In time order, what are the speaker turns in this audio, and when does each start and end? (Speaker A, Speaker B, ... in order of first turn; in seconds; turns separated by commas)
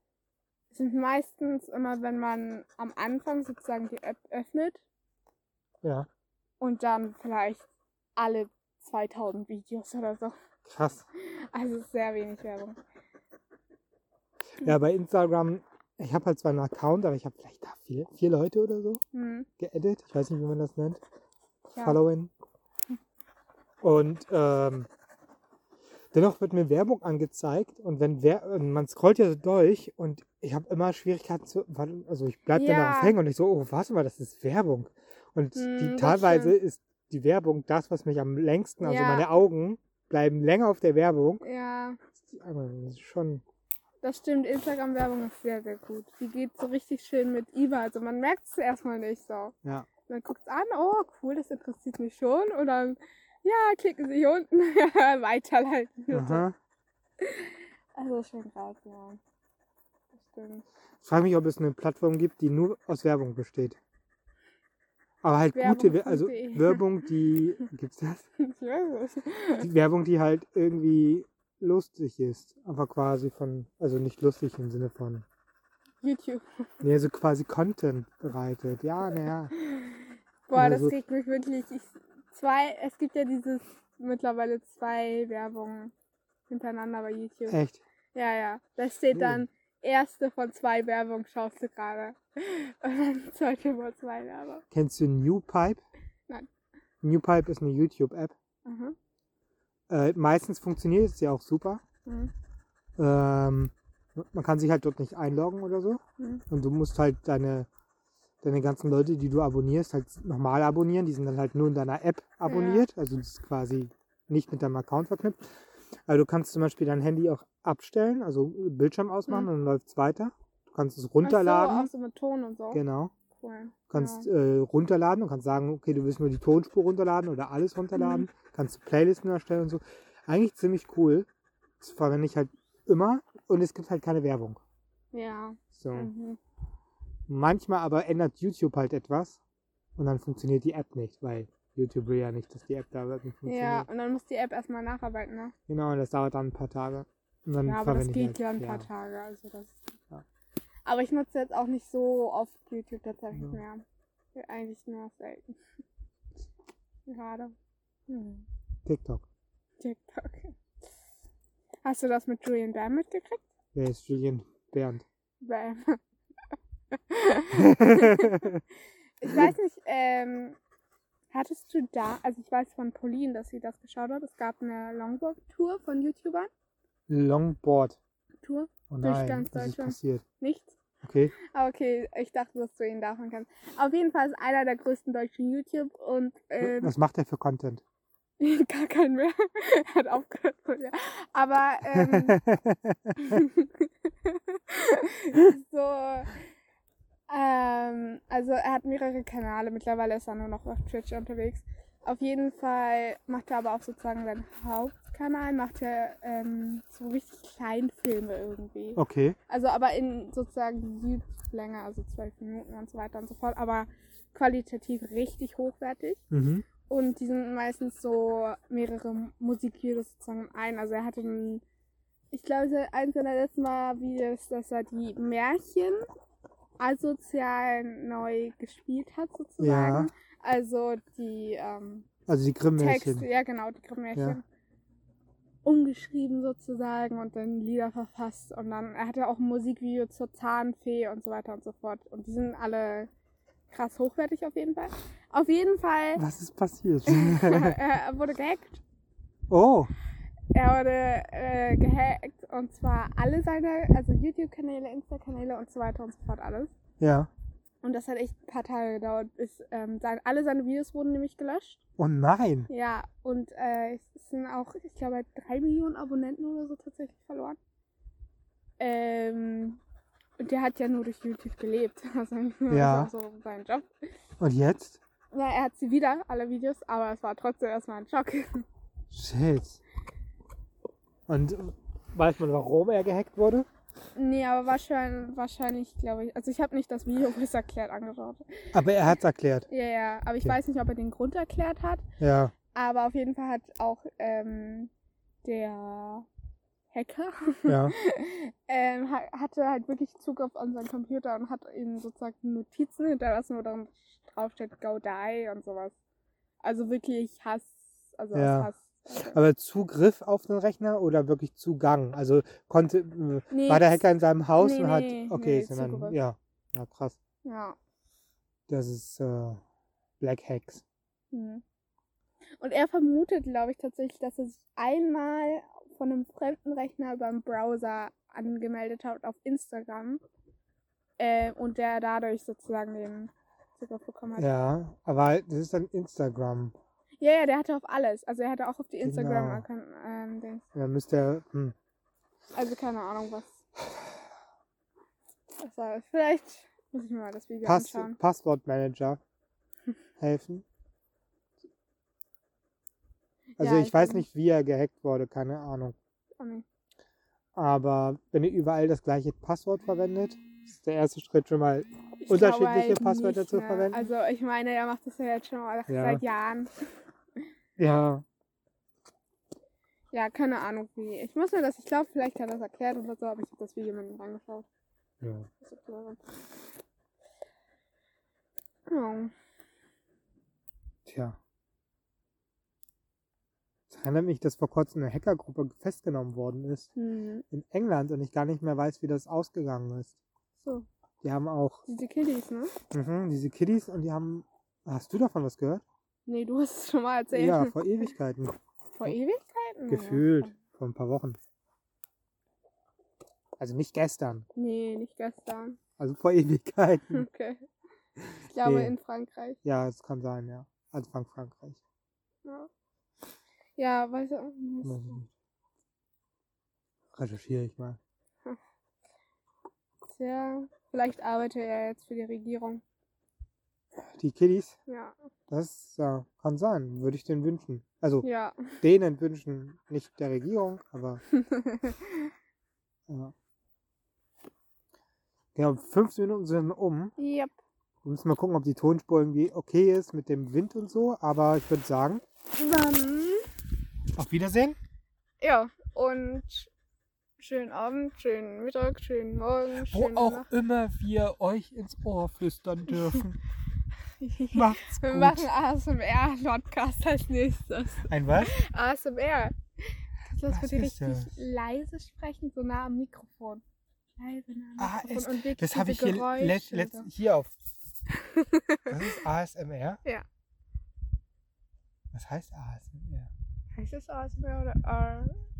Speaker A: 0.7-4.8, Speaker B: 5.8-6.1, Speaker A: 6.6-7.6, Speaker A: 8.2-10.3, Speaker B: 10.6-11.0, Speaker A: 11.5-12.8, Speaker B: 14.6-19.0, Speaker A: 19.1-19.5, Speaker B: 19.6-21.0, Speaker A: 21.7-22.0, Speaker B: 21.8-22.3, Speaker B: 23.8-24.9, Speaker B: 26.1-41.4, Speaker A: 32.5-33.1, Speaker A: 35.5-36.6, Speaker A: 38.8-39.3, Speaker A: 41.4-42.0, Speaker B: 42.2-43.4, Speaker A: 44.0-49.5, Speaker A: 50.1-56.4, Speaker B: 56.1-56.5, Speaker A: 57.2-59.2, Speaker A: 60.1-60.6, Speaker B: 61.0-63.8, Speaker B: 65.2-68.3, Speaker A: 65.5-66.9, Speaker A: 68.4-69.7, Speaker B: 69.6-75.2, Speaker A: 76.0-76.4, Speaker B: 76.8-79.5, Speaker A: 79.6-85.9, Speaker B: 80.5-80.9, Speaker A: 86.5-87.6, Speaker B: 87.5-87.8, Speaker A: 88.1-94.6, Speaker B: 89.1-89.4, Speaker B: 94.7-95.8, Speaker B: 97.0-98.3, Speaker A: 98.6-98.9, Speaker B: 99.9-101.8, Speaker A: 102.0-102.3, Speaker B: 103.0-107.7, Speaker B: 108.4-115.4, Speaker A: 112.4-112.9, Speaker B: 116.1-121.9, Speaker A: 121.2-122.8, Speaker B: 122.7-123.1, Speaker A: 123.3-124.3, Speaker B: 123.9-131.3, Speaker A: 127.9-128.2, Speaker B: 131.8-134.6, Speaker A: 135.1-136.4, Speaker B: 135.7-136.1, Speaker B: 137.3-139.4, Speaker B: 140.0-143.9, Speaker A: 143.4-145.5, Speaker B: 145.7-148.9, Speaker A: 147.6-149.8, Speaker A: 150.8-153.8, Speaker B: 153.3-153.6, Speaker A: 154.3-155.6, Speaker A: 157.1-157.5, Speaker A: 158.1-158.4, Speaker B: 158.8-159.2, Speaker A: 159.8-160.5, Speaker A: 161.8-163.5, Speaker B: 163.7-165.0, Speaker A: 165.4-166.0, Speaker A: 166.9-168.5, Speaker B: 167.5-168.6, Speaker A: 169.2-170.6, Speaker B: 169.2-169.5, Speaker A: 171.3-176.5, Speaker B: 177.1-178.0, Speaker A: 178.4-180.8, Speaker B: 178.9-180.2, Speaker B: 181.0-181.3, Speaker A: 181.4-186.9, Speaker B: 186.6-187.8, Speaker A: 188.4-192.4, Speaker B: 191.8-193.4, Speaker A: 193.2-196.3, Speaker A: 197.3-216.2, Speaker B: 208.9-209.4, Speaker B: 216.3-216.7, Speaker A: 216.9-221.6, Speaker A: 222.3-226.1, Speaker A: 226.8-232.1, Speaker B: 229.6-230.1, Speaker B: 232.3-233.3, Speaker A: 232.8-234.4, Speaker A: 235.6-243.1, Speaker A: 243.7-246.2, Speaker B: 246.2-247.8, Speaker A: 247.1-248.8, Speaker B: 249.5-249.9, Speaker A: 250.5-256.7, Speaker B: 257.0-257.3, Speaker A: 257.8-261.8, Speaker B: 262.0-262.7, Speaker A: 262.7-267.6, Speaker A: 268.8-269.8, Speaker A: 270.4-273.9, Speaker B: 272.7-273.1, Speaker B: 274.4-275.0, Speaker A: 275.3-278.6, Speaker B: 279.1-279.8, Speaker B: 281.3-283.7, Speaker A: 284.1-288.9, Speaker B: 288.7-289.7, Speaker A: 289.7-292.1, Speaker B: 292.2-292.5, Speaker A: 292.7-294.9, Speaker A: 295.4-296.3, Speaker A: 296.9-305.9, Speaker B: 297.6-297.9, Speaker A: 306.6-309.4, Speaker B: 308.3-317.2, Speaker A: 313.5-314.0, Speaker A: 314.6-316.2, Speaker A: 317.4-317.8, Speaker B: 318.7-319.6, Speaker B: 320.2-320.8, Speaker A: 321.3-321.6, Speaker A: 322.6-330.2, Speaker A: 331.2-334.5, Speaker B: 334.4-336.7, Speaker A: 337.2-340.6, Speaker B: 339.0-339.6, Speaker B: 340.7-341.7, Speaker A: 342.5-343.6, Speaker A: 345.6-348.2, Speaker B: 347.6-349.2, Speaker B: 350.2-350.6, Speaker A: 353.6-354.2, Speaker B: 353.6-355.9, Speaker A: 356.4-356.6, Speaker B: 357.5-364.1, Speaker A: 362.2-366.7, Speaker B: 365.9-366.2, Speaker B: 367.8-368.2, Speaker A: 370.1-374.6, Speaker B: 375.2-375.5, Speaker A: 375.6-376.2, Speaker A: 378.9-379.3, Speaker B: 381.1-381.4, Speaker B: 383.9-386.9, Speaker A: 386.9-387.4, Speaker B: 387.5-390.2, Speaker A: 390.6-390.9, Speaker B: 391.2-391.8, Speaker A: 391.9-392.7, Speaker B: 392.9-395.8, Speaker A: 396.2-398.1, Speaker B: 397.3-399.1, Speaker A: 398.9-400.5, Speaker B: 399.9-401.4, Speaker B: 403.6-404.4, Speaker A: 404.6-405.8, Speaker B: 406.0-407.2, Speaker A: 407.1-407.6, Speaker A: 408.5-409.6, Speaker B: 408.6-408.9, Speaker B: 409.6-411.8, Speaker A: 412.4-412.7, Speaker A: 413.8-415.2, Speaker B: 414.8-415.3, Speaker B: 417.1-418.0, Speaker A: 420.1-422.8, Speaker B: 424.0-424.8, Speaker A: 424.9-425.1, Speaker B: 425.5-428.3, Speaker A: 428.2-428.8, Speaker B: 428.8-431.2, Speaker A: 431.4-432.2, Speaker B: 433.1-433.3, Speaker B: 435.5-437.1, Speaker A: 437.2-437.5, Speaker B: 438.0-442.2, Speaker A: 442.6-443.5, Speaker B: 444.1-444.8, Speaker A: 445.4-446.7, Speaker A: 447.4-450.5, Speaker B: 449.8-453.4, Speaker A: 454.2-459.6, Speaker B: 454.5-455.5, Speaker B: 458.0-458.5, Speaker A: 460.2-463.6, Speaker B: 460.5-461.3, Speaker A: 464.2-467.1, Speaker B: 464.8-467.5, Speaker A: 468.1-469.2, Speaker B: 468.9-470.0, Speaker B: 472.1-473.3, Speaker A: 473.7-475.3